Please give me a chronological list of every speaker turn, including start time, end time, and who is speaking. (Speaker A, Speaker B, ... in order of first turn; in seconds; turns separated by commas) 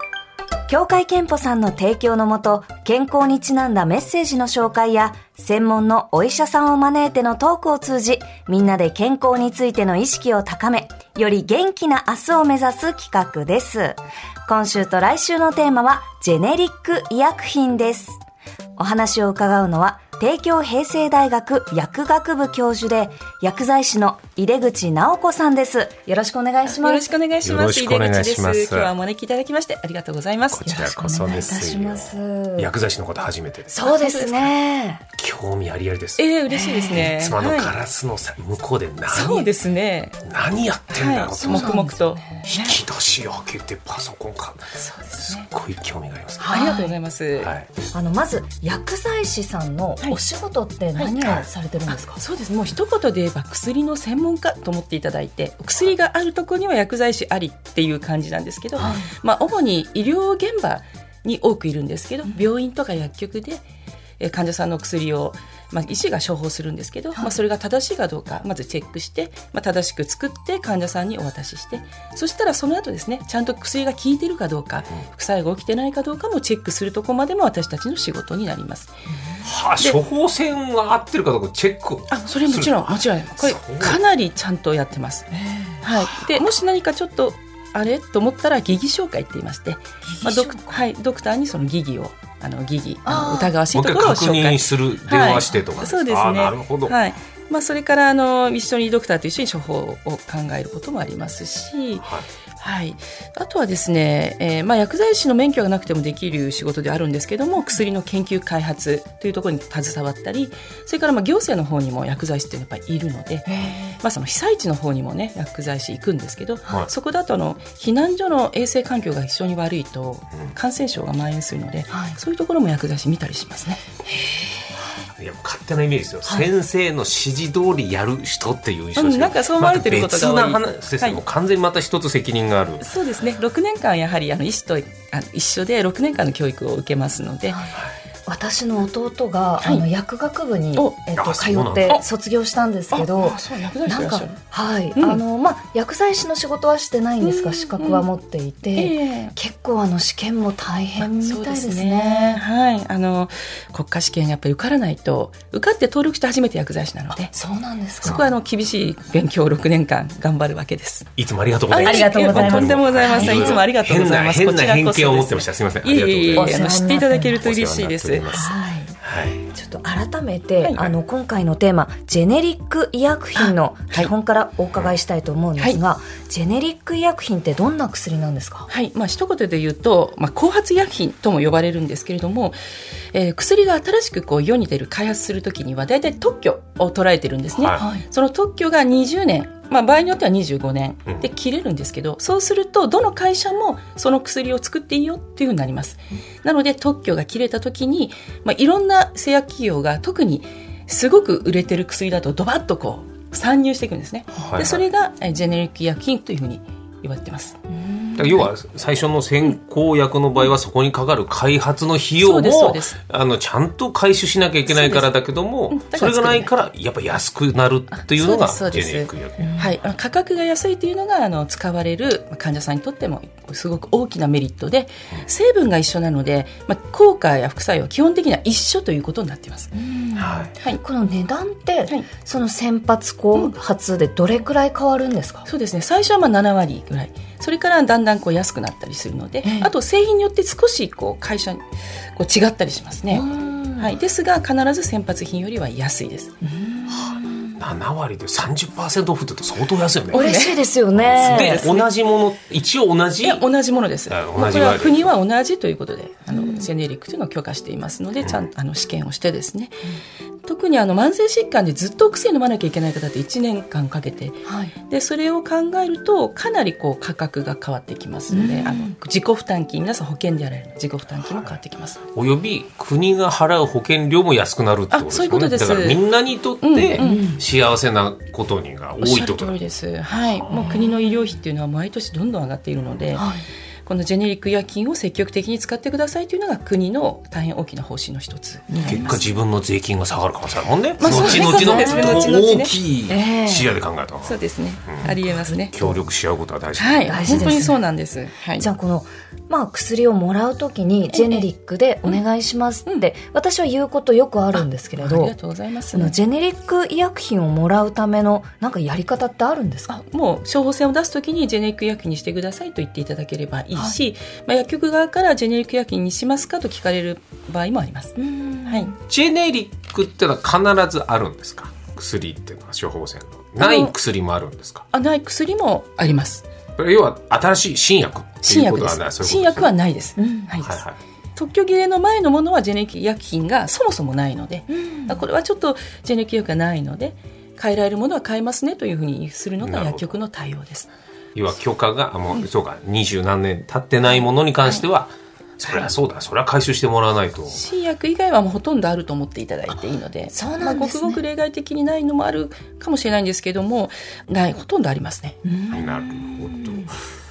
Speaker A: 0.7-18.2, Speaker A: 18.8-27.1, Speaker B: 26.6-31.3, Speaker C: 27.4-28.9, Speaker C: 30.5-33.8, Speaker A: 31.1-32.7, Speaker A: 33.7-35.0, Speaker B: 33.8-34.5, Speaker C: 35.2-36.2, Speaker B: 36.2-37.7, Speaker A: 36.5-37.1, Speaker C: 36.9-39.5, Speaker B: 39.1-40.2, Speaker C: 40.2-41.9, Speaker B: 40.9-42.8, Speaker A: 41.4-42.4, Speaker C: 42.5-46.6, Speaker B: 44.8-45.5, Speaker A: 46.4-46.9, Speaker B: 46.5-47.5, Speaker C: 47.4-47.7, Speaker A: 47.9-52.2, Speaker B: 51.0-51.2, Speaker C: 51.2-51.5, Speaker B: 51.9-63.6, Speaker A: 58.8-59.1, Speaker B: 64.2-78.9, Speaker C: 79.4-84.0, Speaker B: 82.1-85.3, Speaker B: 85.8-102.1, Speaker A: 90.2-90.8, Speaker A: 93.0-93.5, Speaker C: 93.7-97.0, Speaker C: 102.0-102.3, Speaker B: 102.6-123.8, Speaker A: 113.5-114.0, Speaker A: 121.9-122.2, Speaker C: 125.2-132.8, Speaker B: 129.0-131.2, Speaker B: 132.8-137.7, Speaker A: 137.5-152.4, Speaker C: 141.2-142.0, Speaker B: 142.9-144.4, Speaker B: 147.2-148.1, Speaker B: 148.7-149.3, Speaker B: 151.0-157.3, Speaker A: 157.3-158.3, Speaker B: 158.0-161.1, Speaker C: 158.0-158.3, Speaker C: 161.2-169.4, Speaker B: 161.7-168.5, Speaker A: 161.7-163.6, Speaker A: 166.3-167.3, Speaker A: 168.3-178.7, Speaker B: 173.4-174.1, Speaker B: 178.7-182.6, Speaker B: 183.1-207.6, Speaker C: 187.6-187.9, Speaker A: 187.8-188.0, Speaker C: 204.4-204.8, Speaker A: 207.8-208.4, Speaker C: 208.2-219.6, Speaker B: 212.2-213.0, Speaker B: 214.7-215.1, Speaker B: 215.7-216.5, Speaker B: 217.9-229.7, Speaker A: 219.4-219.8, Speaker A: 229.7-235.5, Speaker C: 230.2-230.5, Speaker B: 235.5-241.6, Speaker A: 239.4-239.7, Speaker B: 242.2-246.3, Speaker A: 243.1-243.9, Speaker A: 246.4-247.6, Speaker C: 246.9-250.3, Speaker A: 250.1-251.7, Speaker B: 250.1-250.6, Speaker C: 250.9-253.5, Speaker B: 251.2-251.9, Speaker B: 253.2-259.8, Speaker C: 254.1-255.1, Speaker A: 256.3-256.7, Speaker B: 260.4-272.0, Speaker A: 264.4-264.7, Speaker A: 268.3-268.9, Speaker C: 271.1-271.6, Speaker C: 272.1-279.6, Speaker B: 274.9-276.0, Speaker B: 276.6-277.3, Speaker A: 277.0-277.4, Speaker B: 279.0-283.3, Speaker A: 280.5-281.2, Speaker A: 283.1-283.4, Speaker B: 283.9-289.2, Speaker A: 288.7-289.2, Speaker C: 288.9-297.7, Speaker B: 291.0-292.7, Speaker A: 291.0-292.3, Speaker A: 293.1-293.7, Speaker B: 294.2-295.9, Speaker B: 296.8-298.7, Speaker A: 297.1-297.9, Speaker A: 298.6-305.4, Speaker B: 301.1-301.5, Speaker B: 304.5-306.1, Speaker A: 305.9-310.0, Speaker B: 309.9-318.9, Speaker A: 313.7-314.0, Speaker A: 318.2-319.0, Speaker C: 319.1-324.9, Speaker B: 323.6-323.9, Speaker B: 324.9-326.4, Speaker C: 326.8-329.7, Speaker B: 328.4-340.9, Speaker A: 330.2-330.6, Speaker C: 330.6-331.0, Speaker A: 334.7-335.3, Speaker C: 339.6-340.2, Speaker C: 341.4-347.6, Speaker B: 347.5-355.8, Speaker A: 350.3-351.2, Speaker A: 355.6-356.9, Speaker C: 355.7-357.0